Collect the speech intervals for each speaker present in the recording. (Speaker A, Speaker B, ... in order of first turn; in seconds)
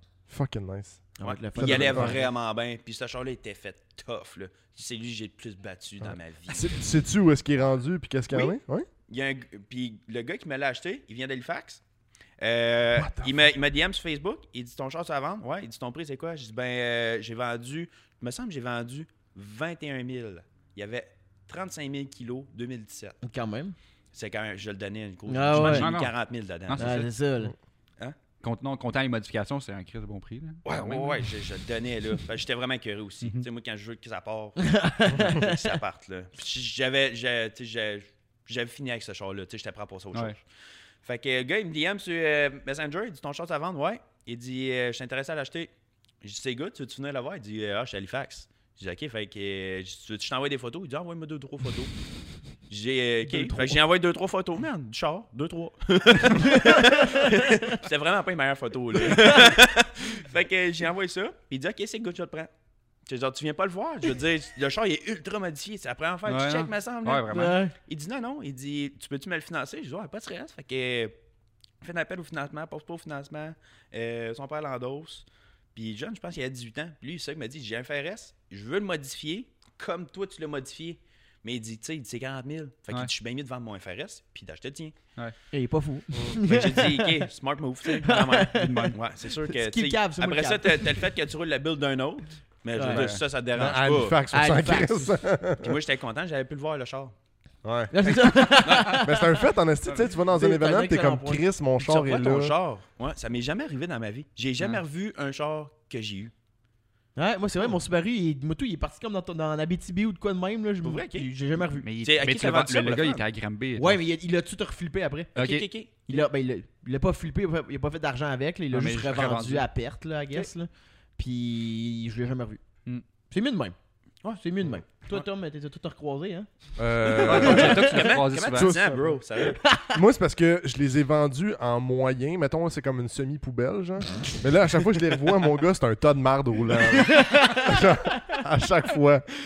Speaker A: 0.3-2.2, 6.0-8.9, 12.9-13.3, 93.5-95.8, 97.6-102.5, 126.8-128.0, 128.5-129.2, 129.8-139.3
Speaker B: 1.2-2.3, 23.2-23.8, 25.3-25.9, 26.8-27.5, 34.6-35.8, 53.2-53.8, 56.5-57.5, 59.0-59.5, 67.3-67.7, 85.5-87.3, 87.9-91.0, 92.7-93.1, 94.3-95.2, 97.9-99.4, 100.2-101.4, 107.2-111.9, 113.8-115.3, 115.9-122.6, 123.3-123.8, 124.4-128.1, 129.4-130.0, 136.9-138.3
Speaker C: 1.2-6.8, 8.3-11.8, 12.4-23.2, 24.1-27.1, 30.6-40.5, 41.0-51.9, 52.7-62.5, 63.0-71.2, 71.8-85.0, 86.4-94.2, 95.6-97.1, 98.0-99.1, 101.8-106.3, 110.8-111.3, 112.0-113.2, 115.3-116.2, 127.3-129.6
Speaker D: 25.5-26.1, 26.6-27.1, 28.4-31.2, 66.2-67.6, 88.5-89.0, 92.9-93.2, 99.8-100.1, 111.8-114.0, 115.3-115.7, 118.7-119.7, 127.2-128.8